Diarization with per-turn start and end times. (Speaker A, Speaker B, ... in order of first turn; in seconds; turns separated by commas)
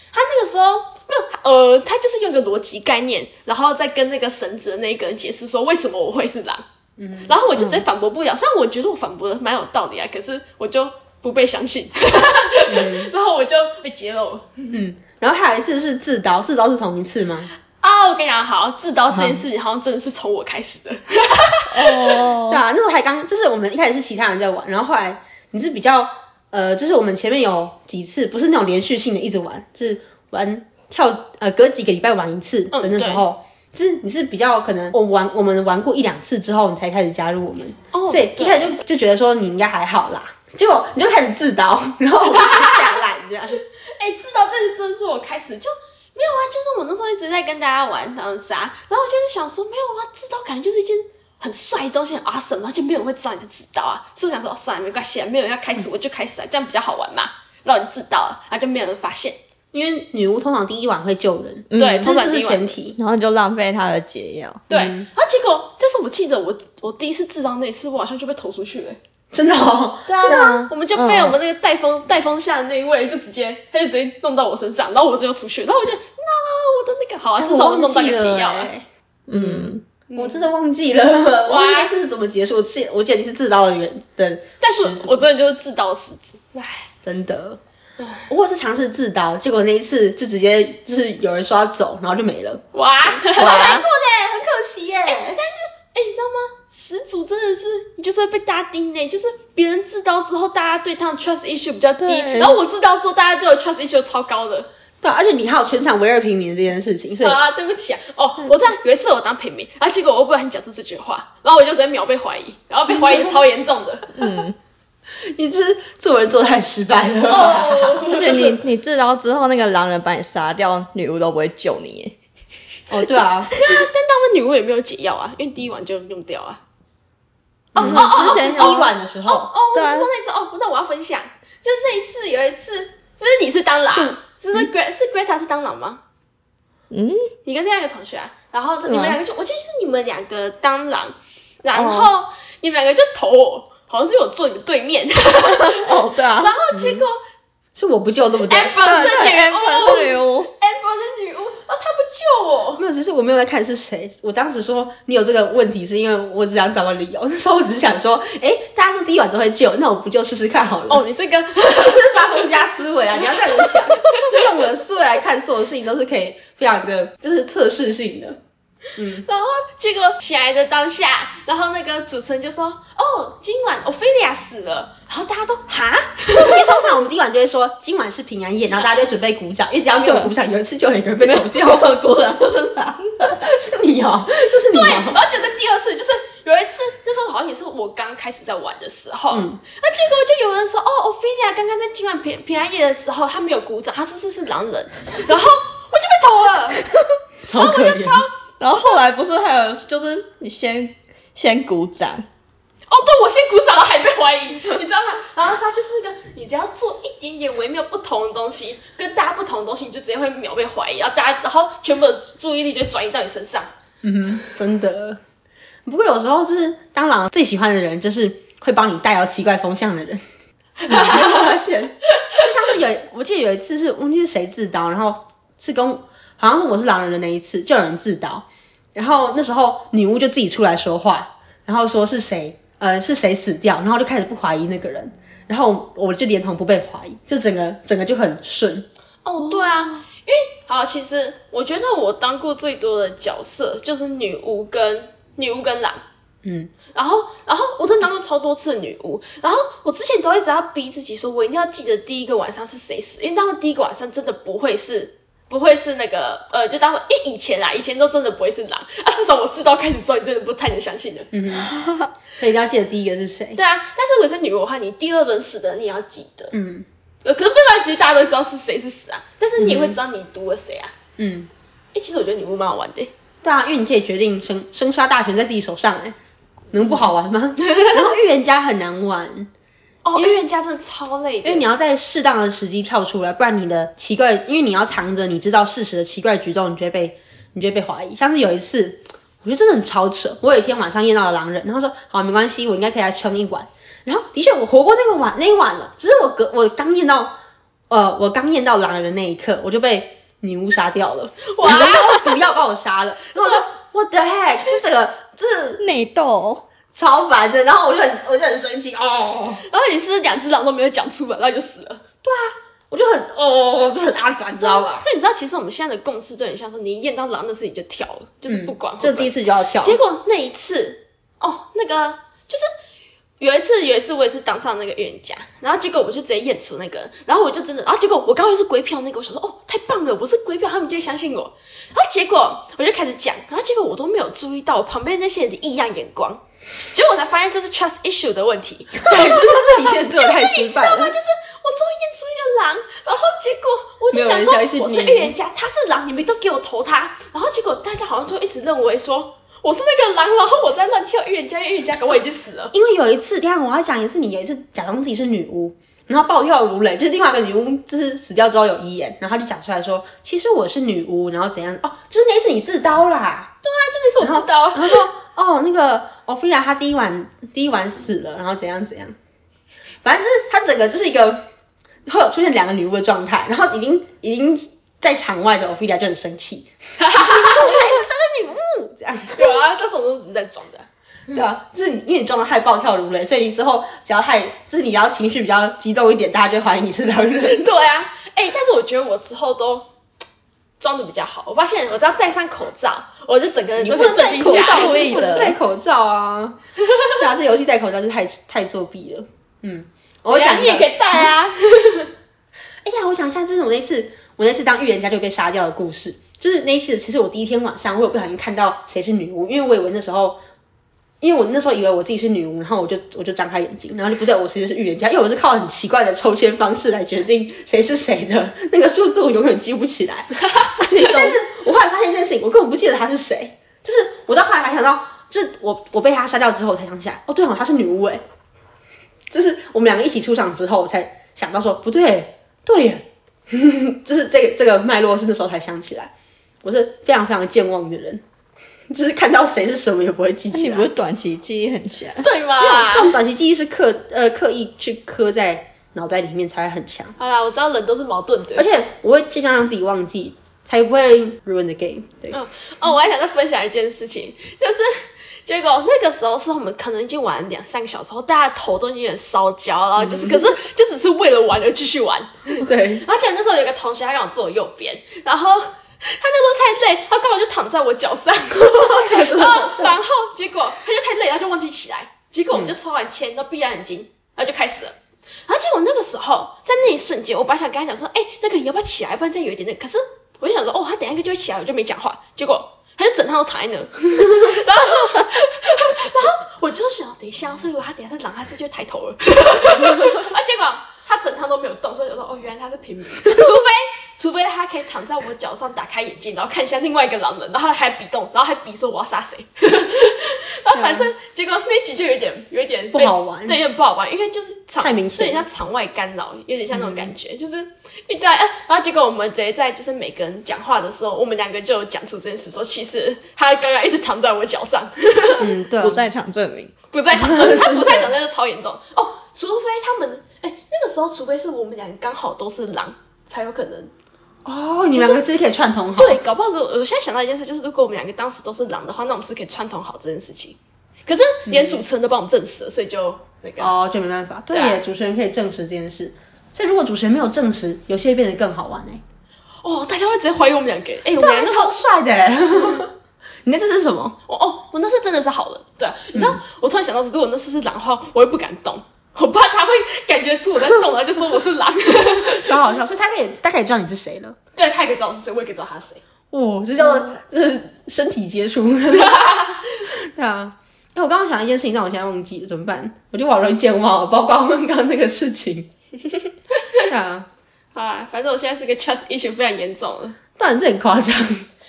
Speaker A: 0.1-6.6, Speaker B: 7.0-7.3, Speaker A: 7.3-14.7, Speaker C: 7.6-7.8, Speaker B: 12.7-13.1, Speaker B: 14.7-17.5, Speaker A: 17.8-22.3, Speaker B: 19.1-19.4, Speaker C: 21.7-22.6, Speaker B: 22.5-43.6, Speaker A: 32.7-33.2, Speaker A: 37.9-38.7, Speaker A: 42.3-43.0, Speaker A: 43.9-59.4, Speaker B: 59.7-63.0, Speaker C: 61.7-62.1, Speaker A: 61.8-62.7, Speaker C: 63.0-64.6, Speaker A: 64.7-69.0, Speaker B: 64.7-65.1, Speaker B: 69.3-70.7, Speaker A: 70.1-78.7, Speaker C: 70.2-71.4, Speaker B: 77.4-85.2, Speaker C: 79.3-79.8, Speaker A: 80.1-80.5, Speaker A: 81.5-81.9, Speaker A: 84.6-86.9, Speaker B: 87.0-87.6, Speaker A: 88.0-88.2, Speaker B: 88.3-95.4, Speaker A: 92.7-93.8, Speaker C: 93.4-93.9, Speaker A: 95.1-104.7, Speaker C: 102.0-102.6, Speaker B: 105.0-107.4, Speaker A: 107.2-114.2, Speaker C: 114.1-114.6, Speaker B: 115.3-118.1, Speaker A: 117.3-118.6, Speaker C: 117.5-122.2, Speaker B: 122.9-123.6, Speaker A: 123.5-126.6, Speaker B: 127.8-129.5, Speaker A: 127.8-136.0, Speaker C: 127.8-128.9, Speaker C: 129.7-130.1, Speaker C: 136.9-137.3, Speaker A: 137.4-147.2, Speaker C: 138.8-139.2, Speaker C: 141.7-142.1, Speaker C: 145.4-146.6, Speaker B: 146.7-147.1, Speaker B: 147.8-149.3, Speaker A: 148.5-152.8, Speaker C: 148.8-150.5, Speaker B: 152.8-161.0, Speaker A: 160.9-162.4, Speaker B: 161.6-168.4, Speaker A: 163.5-164.4, Speaker B: 169.0-169.3, Speaker A: 169.3-176.9, Speaker B: 176.3-181.9, Speaker C: 180.0-180.3, Speaker C: 181.2-183.6, Speaker B: 183.3-185.2, Speaker A: 184.7-196.9, Speaker B: 189.3-189.6, Speaker B: 197.5-198.2, Speaker A: 197.5-198.3, Speaker C: 198.6-202.3, Speaker A: 202.9-213.7, Speaker B: 214.0-215.2, Speaker B: 215.9-220.2, Speaker B: 220.8-238.9, Speaker A: 220.9-221.4, Speaker A: 239.2-246.0, Speaker C: 239.5-239.9, Speaker B: 246.4-246.7, Speaker A: 246.9-261.3, Speaker B: 261.3-261.7, Speaker B: 262.4-263.6, Speaker A: 263.6-266.5, Speaker B: 266.5-266.9, Speaker A: 267.2-270.9, Speaker B: 269.6-270.0, Speaker B: 271.2-271.5, Speaker A: 271.9-273.1, Speaker B: 273.4-276.2, Speaker B: 276.7-279.5, Speaker A: 277.7-278.0, Speaker A: 280.0-281.6, Speaker B: 281.4-297.4, Speaker B: 297.9-305.8, Speaker A: 301.5-302.5, Speaker A: 303.4-303.6, Speaker C: 305.8-306.6, Speaker B: 306.9-309.6, Speaker A: 309.7-312.0, Speaker B: 312.2-315.1, Speaker A: 314.6-322.7, Speaker B: 318.5-320.0, Speaker A: 323.4-352.7, Speaker B: 339.0-341.2, Speaker B: 344.1-345.3, Speaker B: 352.7-363.5, Speaker A: 363.6-365.1, Speaker B: 364.2-369.1, Speaker B: 370.0-371.4, Speaker B: 372.1-379.6, Speaker A: 377.0-377.9, Speaker A: 379.4-381.4, Speaker B: 381.3-387.7, Speaker A: 387.4-389.9, Speaker A: 390.8-395.6, Speaker B: 393.8-401.3, Speaker C: 394.3-395.6, Speaker A: 400.3-402.1, Speaker B: 402.9-410.4, Speaker B: 411.2-428.2, Speaker A: 420.4-421.4, Speaker B: 429.3-436.1, Speaker B: 436.6-438.2, Speaker B: 438.9-440.9, Speaker C: 440.5-442.3, Speaker A: 442.2-443.2, Speaker B: 442.6-447.2, Speaker A: 447.2-448.7, Speaker B: 448.6-452.4, Speaker A: 452.3-474.9, Speaker B: 460.0-460.6, Speaker B: 462.6-463.1, Speaker B: 468.8-470.0, Speaker B: 472.5-472.8, Speaker A: 475.5-515.5, Speaker B: 502.9-503.6, Speaker B: 504.8-505.4, Speaker B: 506.7-507.1, Speaker B: 515.4-516.0, Speaker C: 515.8-516.7, Speaker A: 516.9-523.9, Speaker B: 517.1-518.1, Speaker B: 524.5-526.2, Speaker A: 524.9-525.2, Speaker A: 526.0-533.7, Speaker B: 531.5-531.8, Speaker B: 533.6-539.0, Speaker A: 534.5-534.8, Speaker A: 539.6-541.8, Speaker B: 541.2-542.9, Speaker B: 543.5-544.2, Speaker A: 544.3-552.5, Speaker B: 546.1-546.4, Speaker B: 552.3-554.4, Speaker A: 554.6-556.0, Speaker B: 556.3-565.7, Speaker A: 558.9-559.6, Speaker B: 566.9-567.3, Speaker A: 567.8-570.2, Speaker B: 570.4-571.5